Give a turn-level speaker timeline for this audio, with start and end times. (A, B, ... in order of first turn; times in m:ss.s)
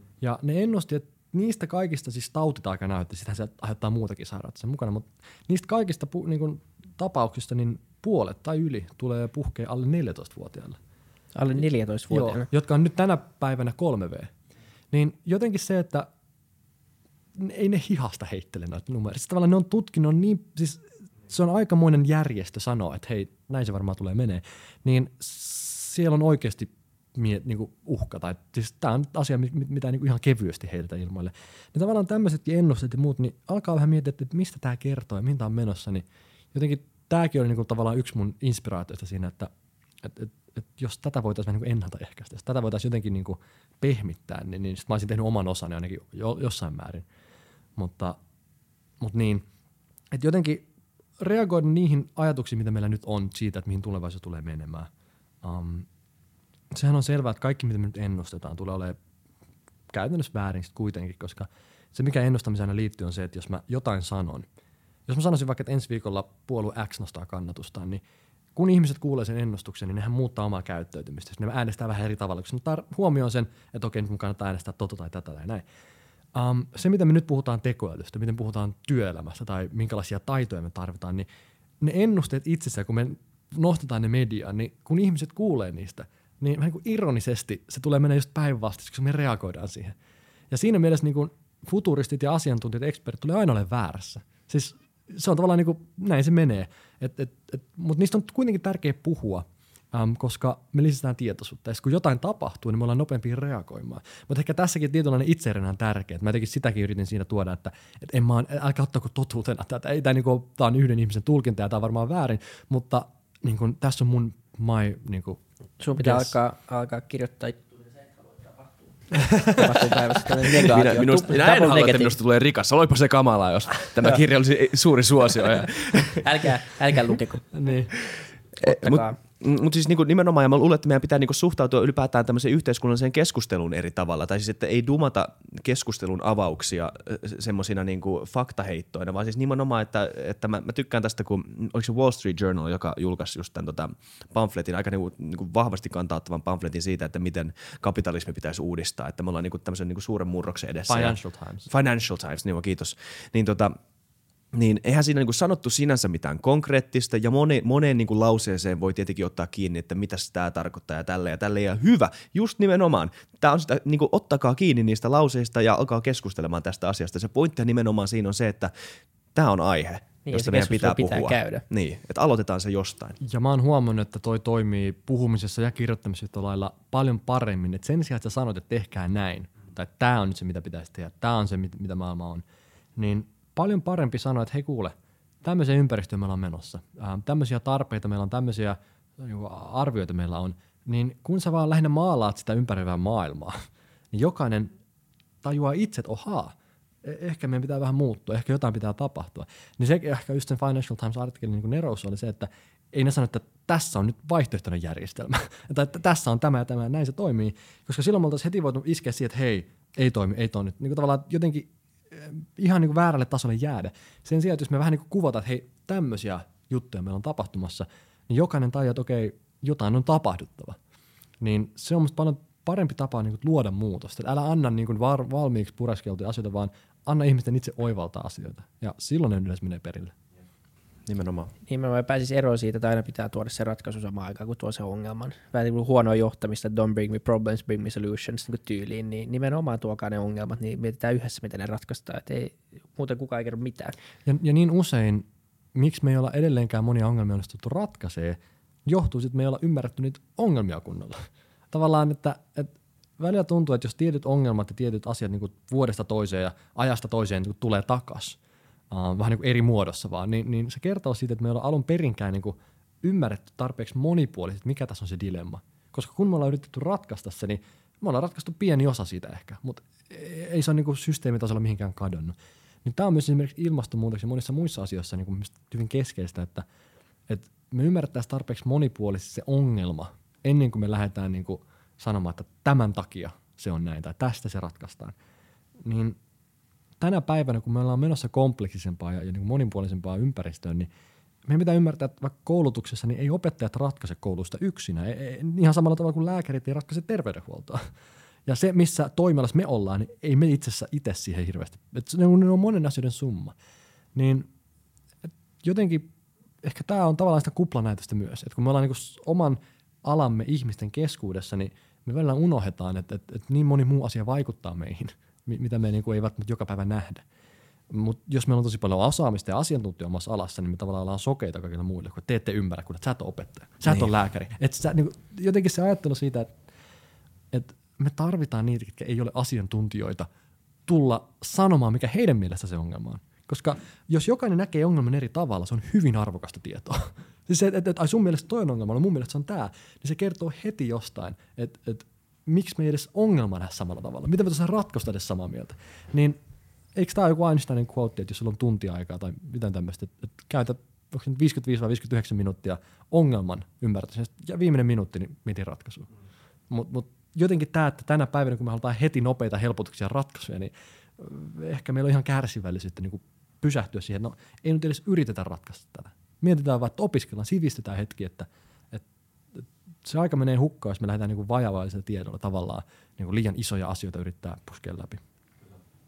0:00.2-0:10.8 A
0:11.3-0:12.5 B
0:12.1-0:14.3 A
0:14.9-0:16.1 A
0:17.3-0:39.5 A
0:40.0-0:47.0 A
0:47.8-0:48.2 A
0:49.0-0:49.4 A
0:50.1-0:50.7 A
0:51.2-0:54.9 A
0:55.4-0:55.9 A
0:56.7-0:59.0 A
0:59.9-1:04.5 A
1:05.1-1:08.0 A
1:08.5-1:15.6 A
1:16.3-1:21.2 A
1:21.8-1:30.0 A
1:30.5-1:55.4 A
1:55.8-1:57.7 B
1:56.0-1:56.3 A
1:58.3-2:02.1 B
1:59.1-2:00.0 A
2:00.4-2:06.2 C
2:06.1-2:07.5 B
2:07.5-2:07.9 A
2:08.6-2:09.2 B
2:08.6-2:31.2 C
2:30.9-2:31.7 A
2:31.7-2:33.7 C
2:34.5-2:48.7 C
2:49.3-2:53.2 C
2:50.2-2:51.6 B
2:53.2-3:02.4 A
3:03.0-3:14.7 A
3:15.4-3:40.8 A
3:41.4-3:50.1 A
3:51.0-3:51.5 C
3:51.7-4:04.0 B
4:04.2-4:18.4 A
4:18.9-4:36.6 A
4:37.3-4:45.1 A
4:45.8-4:46.2 A
4:47.0-4:50.9 A
4:51.5-4:57.9 A
4:58.5-5:03.5 A
5:04.1-5:04.5 A
5:05.6-5:06.1 A
5:06.6-5:17.2 A
5:17.9-5:26.5 A
5:27.5-5:30.3 A
5:30.9-5:46.4 A
5:46.9-5:56.1 A
5:56.7-6:15.2 A